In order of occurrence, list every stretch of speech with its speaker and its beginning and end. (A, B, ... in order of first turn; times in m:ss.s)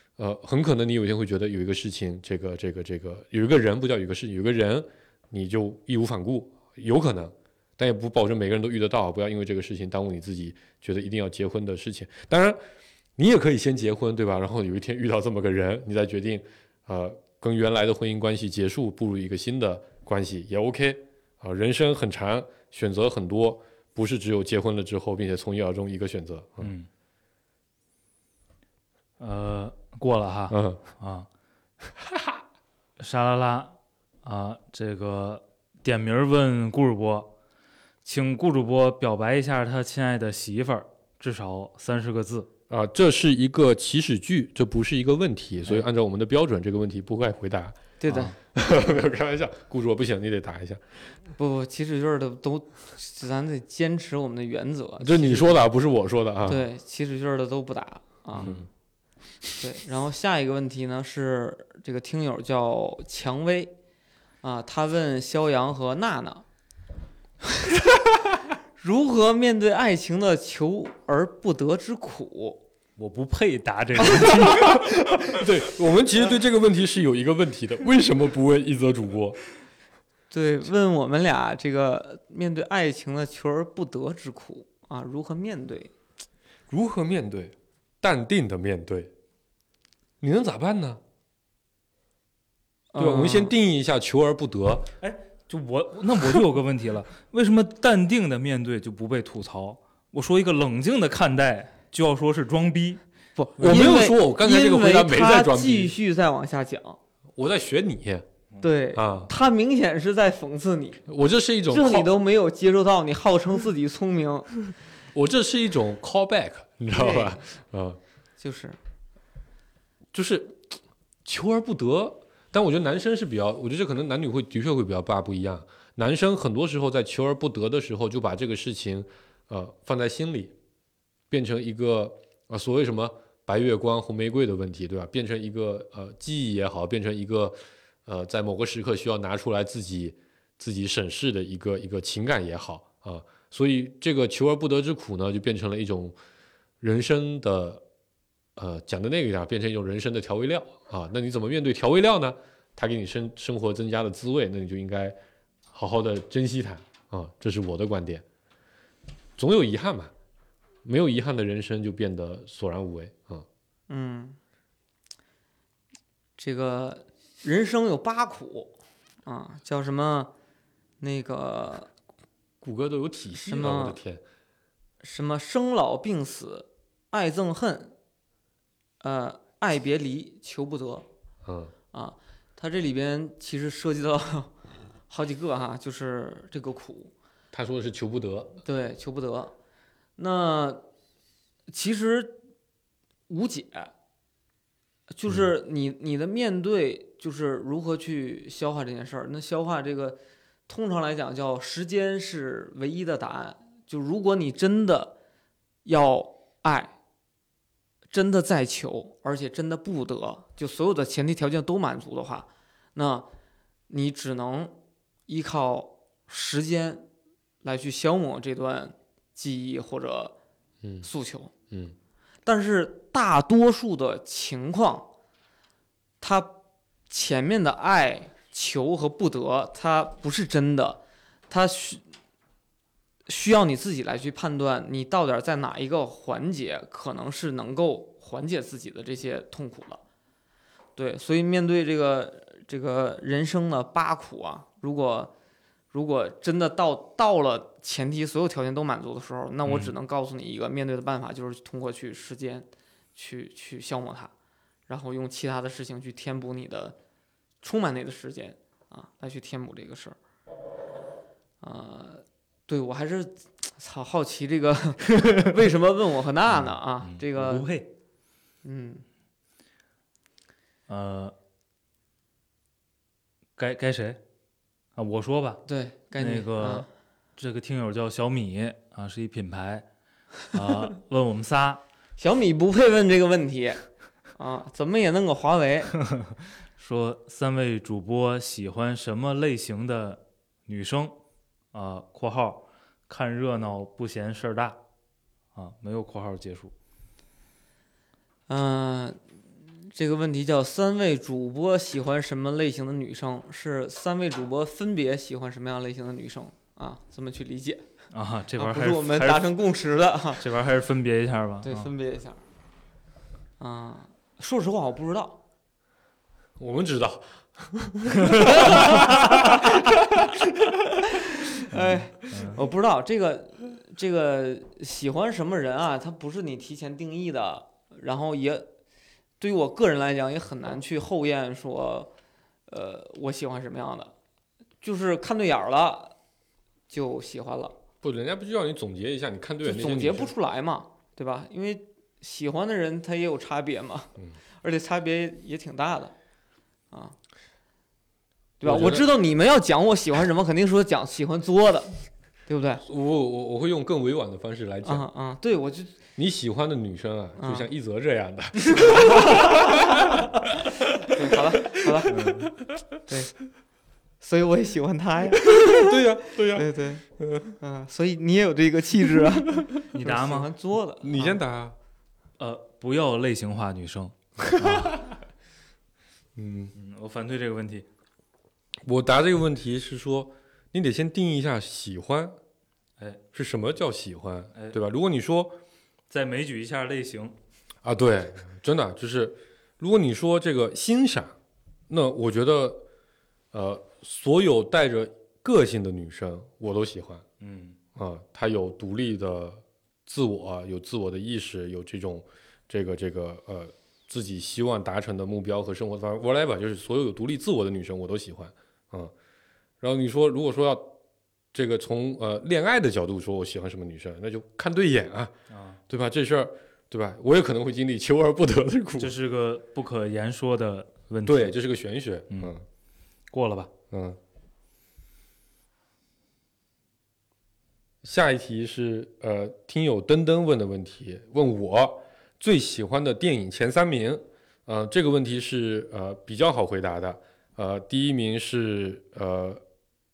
0:00.2-0:12.6 A
0:13.2-0:26.7 A
0:26.6-0:26.9 B
0:29.2-0:31.3 B
0:30.5-0:30.8 A
0:32.0-0:32.4 A
0:33.0-0:37.3 B
0:38.0-0:42.5 B
0:42.7-0:47.8 A
0:48.0-0:48.3 C
0:48.1-0:48.4 B
0:48.5-0:50.8 A
0:51.4-0:55.6 C
0:55.0-0:56.6 A
0:56.4-0:58.5 C
0:58.4-0:58.7 A
0:59.6-1:03.7 C
1:04.4-1:06.4 C
1:08.8-1:12.6 C
1:13.0-1:14.9 B
1:14.2-1:14.8 C
1:14.7-1:19.4 A
1:20.3-1:25.9 C
1:26.7-1:29.1 A
1:30.2-1:31.0 A
1:32.9-1:33.5 C
1:33.0-1:34.9 A
1:35.0-1:43.0 B
1:43.4-1:47.0 C
1:43.6-1:45.9 A
1:47.4-1:48.2 A
1:48.6-1:51.0 C
1:48.9-1:49.3 A
1:51.1-1:52.1 A
1:51.7-1:54.5 C
1:55.1-1:58.0 A
1:56.9-1:57.4 C
1:58.4-1:58.8 C
2:00.1-2:10.5 A
2:11.3-2:26.2 A
2:26.8-2:27.8 A
2:28.6-2:35.2 A
2:35.7-2:38.2 A
2:39.4-2:40.1 A
2:40.8-2:43.4 A
2:43.9-2:44.4 C
2:46.4-2:48.7 C
2:49.2-2:50.3 C
2:51.0-2:51.9 C
2:52.6-2:54.2 A
2:53.4-2:54.0 C
2:55.0-2:57.9 C
2:59.0-3:01.1 C
3:01.4-3:01.7 A
3:01.9-3:04.5 C
3:05.1-3:07.1 C
3:07.5-3:08.6 A
3:08.6-3:09.5 C
3:10.2-3:10.8 C
3:11.7-3:12.4 C
3:13.3-3:13.9 C
3:15.1-3:25.1 C
3:25.8-3:26.9 C
3:28.1-3:33.3 C
3:33.9-3:34.8 C
3:35.3-3:37.1 C
3:37.6-3:40.3 C
3:40.8-3:41.1 A
3:41.0-3:41.5 C
3:42.4-3:45.1 C
3:46.2-3:46.6 C
3:47.1-3:52.0 C
3:53.3-4:00.0 C
4:01.0-4:05.3 C
4:05.9-4:14.3 C
4:09.6-4:09.9 B
4:14.9-4:17.0 C
4:17.6-4:20.2 C
4:21.6-4:27.7 C
4:27.0-4:27.9 B
4:28.6-4:29.0 C
4:30.9-4:31.3 B
4:33.6-4:34.2 B
4:35.0-4:36.8 B
4:35.6-4:36.9 C
4:37.4-4:39.8 B
4:40.5-4:41.8 B
4:42.2-4:43.8 C
4:44.4-4:45.9 C
4:46.1-4:51.2 B
4:51.7-4:54.8 B
4:55.5-4:56.7 B
4:58.5-4:59.2 C
4:59.8-5:07.9 C
5:08.1-5:09.5 B
5:08.6-5:10.4 C
5:10.4-5:11.9 B
5:11.6-5:12.4 C
5:13.6-5:15.4 C
5:16.6-5:20.8 A
5:18.2-5:19.1 B
5:18.5-5:19.1 C
5:21.0-5:28.7 C
5:21.7-5:22.6 B
5:29.4-5:32.1 C
5:32.7-5:34.1 C
5:34.8-5:36.2 C
5:36.9-5:37.7 C
5:38.0-5:40.3 A
5:39.6-5:46.1 C
5:48.6-5:52.8 C
5:48.6-5:49.1 A
5:52.8-5:55.0 A
5:54.8-5:56.0 C
5:56.2-6:02.8 A
5:57.4-5:57.7 C
5:58.7-6:00.0 C
6:01.0-6:02.2 C
6:02.1-6:02.5 B
6:03.1-6:03.3 C
6:04.2-6:07.0 C
6:05.4-6:07.6 A
6:07.6-6:11.4 C
6:09.9-6:10.5 B
6:11.0-6:11.8 A
6:12.4-6:15.0 B
6:14.5-6:15.0 A
6:16.4-6:16.7 A
6:16.8-6:17.8 B
6:18.8-6:22.4 A
6:23.3-6:25.6 A
6:26.1-6:27.4 B
6:27.8-6:31.4 A
6:31.9-6:32.8 A
6:33.5-6:37.2 A
6:37.4-6:37.8 B
6:38.0-6:49.1 A
6:49.8-6:50.9 A
6:51.5-6:55.3 A
6:55.5-6:55.8 B
6:55.9-6:59.2 A
6:59.0-7:01.6 B
7:01.2-7:02.6 A
7:03.3-7:03.7 B
7:03.9-7:04.2 A
7:08.0-7:19.6 A